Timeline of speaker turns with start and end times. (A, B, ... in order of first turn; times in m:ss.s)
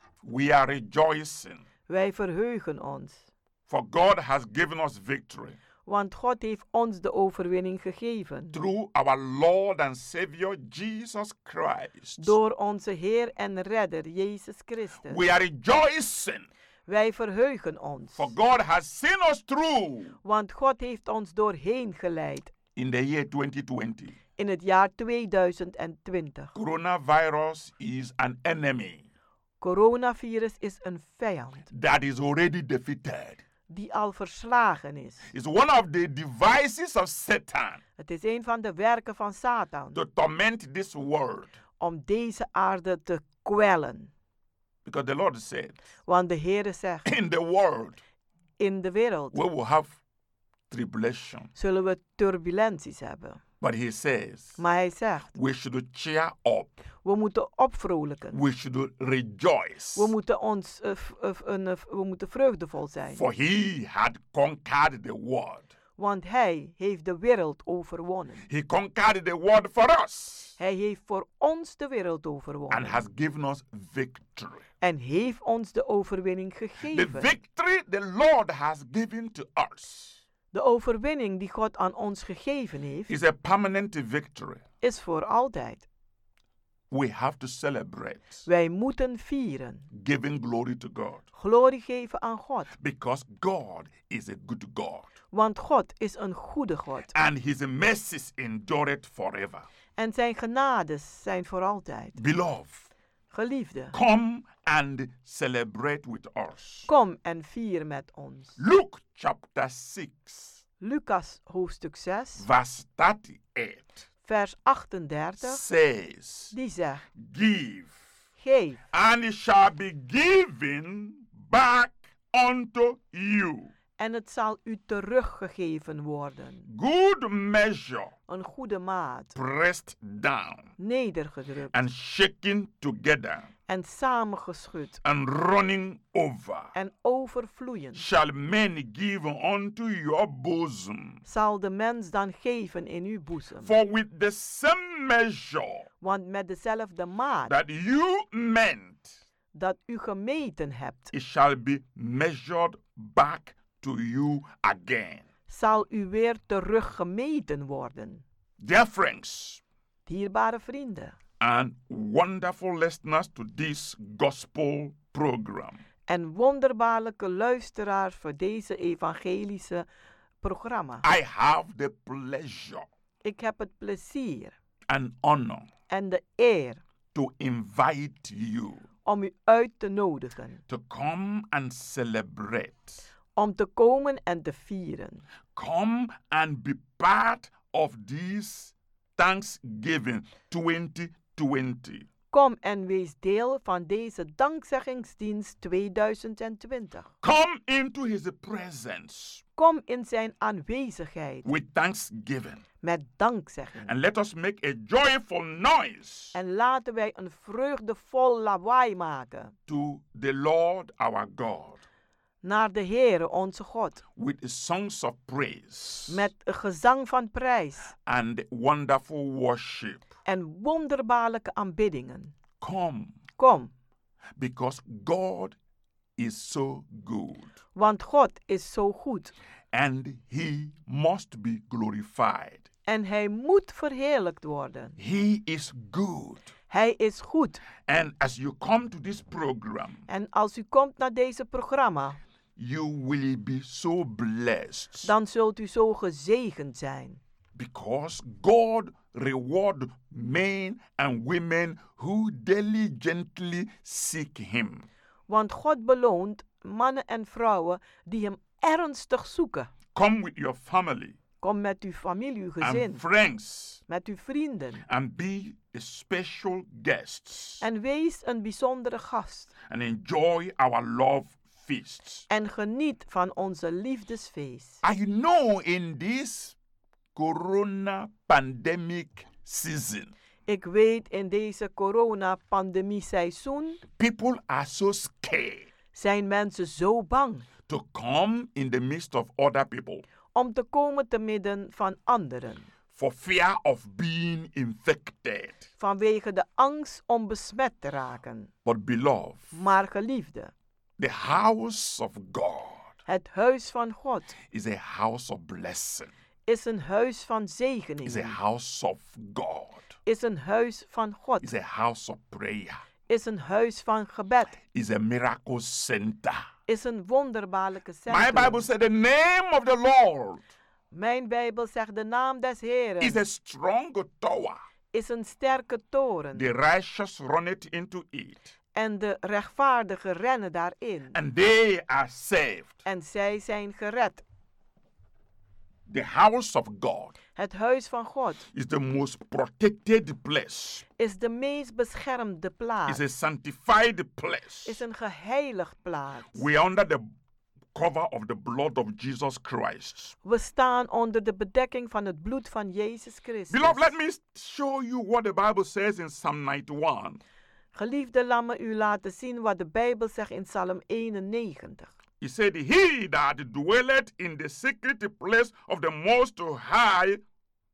0:00.2-0:01.6 A
0:01.9-0:03.2 B
0:03.7-0:05.6 A
0:05.8-0:08.5 B
0:08.5-0:12.3 A
0:12.2-0:15.2 B
0:15.1-0:16.5 A
0:16.9-0:18.3 B
0:18.2-0:20.2 A
0:20.2-0:22.5 B
0:22.8-0:24.2 A
0:24.4-0:26.5 B
0:26.5-0:29.1 A
0:29.6-0:31.7 B
0:31.7-0:33.4 A
0:33.7-0:35.2 B
0:35.3-0:37.8 A
0:38.0-0:40.0 B
0:39.9-0:41.5 A
0:41.8-0:44.1 B
0:44.8-0:45.8 A
0:46.1-0:47.1 B
0:47.0-0:48.0 A
0:48.6-0:49.4 B
0:49.3-0:50.0 A
0:50.7-0:51.5 A
0:51.6-0:53.4 B
0:53.6-0:54.6 A
0:54.6-0:55.3 B
0:55.3-0:56.8 A
0:57.0-0:58.4 B
0:58.3-1:00.1 A
1:00.0-1:03.2 B
1:03.1-1:05.7 A
1:06.0-1:08.4 B
1:08.5-1:10.6 A
1:10.6-1:13.0 B
1:12.7-1:14.6 A
1:14.8-1:17.3 B
1:16.8-1:20.2 A
1:20.5-1:23.1 B
1:23.1-1:24.6 A
1:24.8-1:25.8 B
1:26.9-1:28.4 A
1:28.4-1:29.9 B
1:29.9-1:31.2 A
1:31.4-1:32.7 B
1:32.7-1:35.1 A
1:35.3-1:37.1 B
1:37.1-1:39.6 A
1:40.0-1:42.2 B
1:42.2-1:42.9 A
1:43.3-1:43.9 B
1:43.9-1:46.9 A
1:46.9-1:48.6 B
1:48.6-1:50.6 A
1:50.8-1:52.4 B
1:52.4-1:54.0 A
1:54.2-1:55.6 B
1:55.4-1:56.5 A
1:56.5-1:57.0 B
1:57.2-1:57.9 A
1:58.4-1:58.8 B
1:58.9-2:03.7 A
2:04.0-2:06.6 B
2:06.7-2:08.1 A
2:08.3-2:09.3 B
2:09.3-2:10.7 A
2:10.8-2:11.7 B
2:11.7-2:13.5 A
2:13.7-2:15.0 B
2:15.0-2:16.7 A
2:16.7-2:18.0 B
2:17.9-2:21.2 A
2:21.2-2:23.7 B
2:23.6-2:25.9 A
2:26.0-2:27.5 B
2:27.5-2:29.2 A
2:29.5-2:31.1 B
2:31.1-2:35.2 A
2:35.5-2:38.2 B
2:38.6-2:39.6 A
2:40.1-2:41.1 B
2:41.4-2:45.8 A
2:46.1-2:49.8 B
2:50.4-2:51.0 B
2:51.0-2:52.9 A
2:53.2-2:54.5 B
2:54.9-2:55.7 A
2:55.9-2:56.8 B
2:57.1-2:58.8 A
2:59.0-3:00.6 B
3:00.7-3:03.0 A
3:03.4-3:05.2 B
3:05.5-3:12.1 A
3:12.3-3:17.1 B
3:17.2-3:19.4 A
3:19.6-3:21.5 B
3:21.4-3:22.6 A
3:22.8-3:23.9 B
3:23.8-3:26.3 A
3:26.3-3:29.5 B
3:29.7-3:31.8 A
3:32.4-3:34.0 B
3:34.2-3:36.2 A
3:36.1-3:37.9 B
3:38.0-3:40.0 A
3:40.2-3:42.3 B
3:42.6-3:43.2 A
3:43.4-3:43.7 B
3:44.4-3:45.6 A
3:46.2-3:47.5 A
3:47.8-3:49.3 B
3:49.7-3:52.7 A
3:52.9-3:54.9 B
3:55.0-3:56.5 A
3:56.7-3:57.6 B
3:57.8-4:00.0 A
4:00.1-4:02.2 B
4:02.6-4:05.1 A
4:05.0-4:07.2 B
4:07.5-4:14.9 A
4:15.3-4:19.7 B
4:19.9-4:21.2 A
4:21.4-4:23.0 B
4:22.6-4:23.8 A
4:23.9-4:24.8 B
4:24.8-4:27.6 A
4:27.6-4:29.5 B
4:29.7-4:32.2 A
4:32.3-4:34.8 B
4:34.8-4:36.5 A
4:37.1-4:40.1 A
4:40.5-4:43.8 B
4:44.0-4:45.7 A
4:45.9-4:47.4 B
4:47.7-4:50.0 A
4:50.3-4:52.7 B
4:52.9-4:55.6 A
4:55.8-4:58.5 B
4:58.6-4:59.5 A
4:59.5-5:00.5 B
5:01.0-5:02.9 A
5:03.1-5:04.3 B
5:04.5-5:06.1 A
5:06.5-5:08.4 B
5:08.0-5:09.9 A
5:10.0-5:11.5 B
5:11.4-5:12.8 A
5:13.1-5:14.6 B
5:14.7-5:16.5 A
5:16.7-5:18.6 B
5:18.1-5:20.4 A
5:20.9-5:23.2 B
5:23.0-5:24.6 A
5:24.9-5:26.5 B
5:26.3-5:28.5 A
5:28.7-5:31.2 B
5:31.1-5:32.8 A
5:32.8-5:34.2 B
5:35.9-5:37.1 A
5:37.3-5:38.4 B
5:38.5-5:40.8 A
5:41.0-5:43.0 B
5:42.9-5:44.8 A
5:44.6-5:46.4 B
5:46.3-5:47.1 A
5:47.7-5:50.1 A
5:50.2-5:53.9 B
5:53.5-5:57.2 A
5:57.7-6:01.9 B
6:02.2-6:07.2 A